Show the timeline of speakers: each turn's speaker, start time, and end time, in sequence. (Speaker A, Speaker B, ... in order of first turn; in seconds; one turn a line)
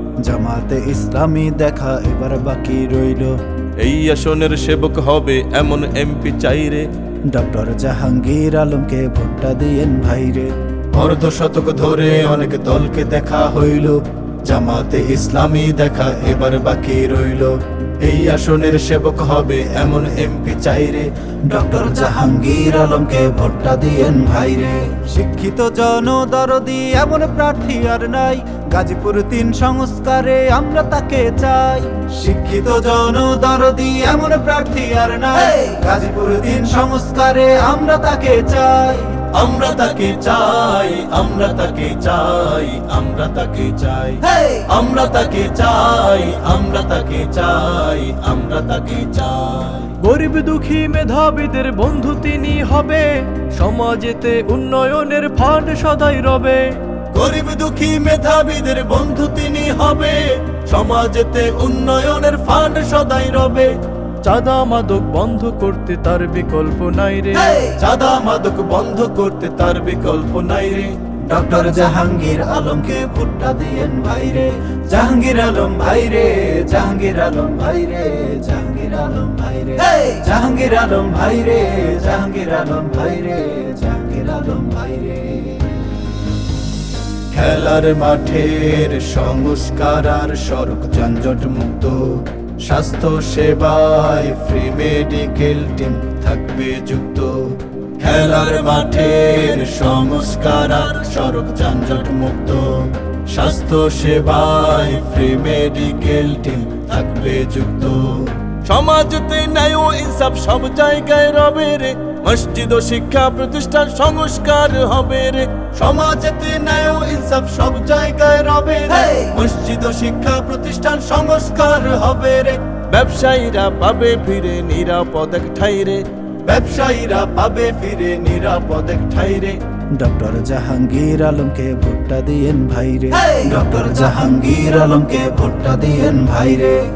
Speaker A: 0.2-3.3
Speaker B: 3.8-6.8
Speaker A: 7.3-10.5
Speaker B: 10.9-21.1
Speaker A: 21.5-39.1
Speaker B: 39.3-50.0
Speaker C: 50.0-56.6
Speaker B: 57.1-63.7
Speaker C: 64.2-67.7
Speaker B: 67.6-70.9
Speaker A: 71.3-85.8
Speaker B: 87.3-97.4
Speaker B: 98.0-129.6
Speaker A: 130.0-136.8